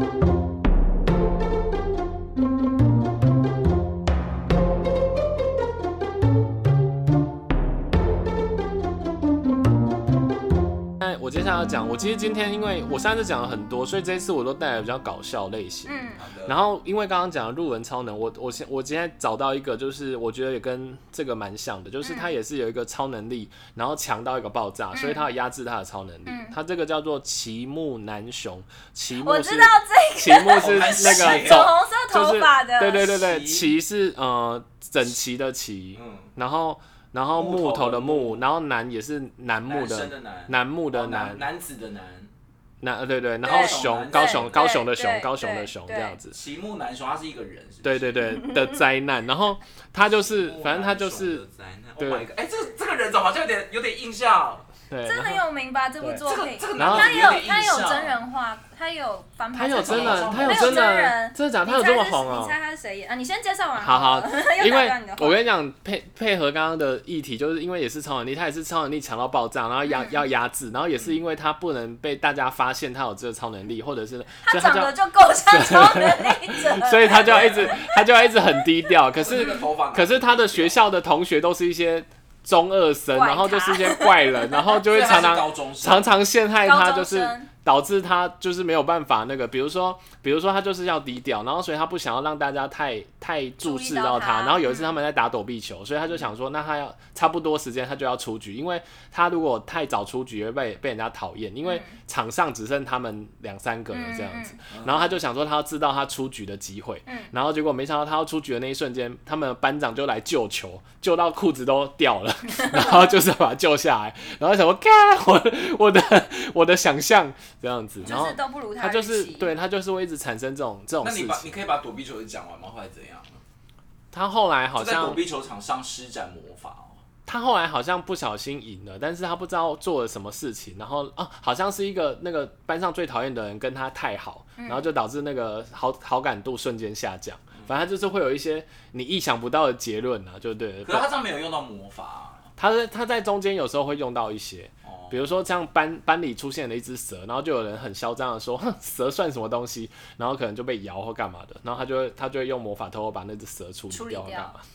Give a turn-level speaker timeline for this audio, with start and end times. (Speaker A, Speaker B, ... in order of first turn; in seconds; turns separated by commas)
Speaker A: 11.0-41.5, Speaker B: 15.8-16.2, Speaker C: 16.2-16.6, Speaker B: 22.0-22.3, Speaker B: 24.9-25.3, Speaker B: 26.2-26.5, Speaker B: 29.1-33.2, Speaker C: 30.5-31.8, Speaker C: 33.0-33.7, Speaker C: 35.9-36.3, Speaker C: 37.3-38.4, Speaker C: 39.7-42.3, Speaker A: 42.8-46.4, Speaker C: 43.4-44.6, Speaker B: 43.4-46.1, Speaker C: 46.3-48.3, Speaker A: 47.8-51.4, Speaker B: 48.3-48.8, Speaker C: 50.2-54.7, Speaker A: 52.0-52.3, Speaker A: 54.9-55.4, Speaker B: 55.0-65.4, Speaker C: 56.2-58.2, Speaker A: 56.7-57.1, Speaker A: 59.5-62.5, Speaker C: 59.7-60.9, Speaker A: 63.8-74.9, Speaker B: 69.9-70.2, Speaker B: 74.4-78.3, Speaker A: 75.5-121.6, Speaker C: 77.2-77.8, Speaker C: 79.2-80.8, Speaker B: 79.3-79.6, Speaker B: 83.1-84.8, Speaker C: 84.8-86.1, Speaker B: 86.6-87.5, Speaker B: 93.6-94.9, Speaker B: 101.6-102.0, Speaker B: 103.9-104.6, Speaker C: 104.7-105.1, Speaker B: 107.0-107.3, Speaker B: 112.5-113.0, Speaker B: 118.0-119.5, Speaker C: 121.0-123.4, Speaker A: 124.1-125.2, Speaker C: 124.7-127.0, Speaker A: 127.2-141.1, Speaker B: 134.6-134.9, Speaker C: 140.8-142.5, Speaker A: 142.6-154.6, Speaker C: 144.8-145.3, Speaker B: 153.9-154.6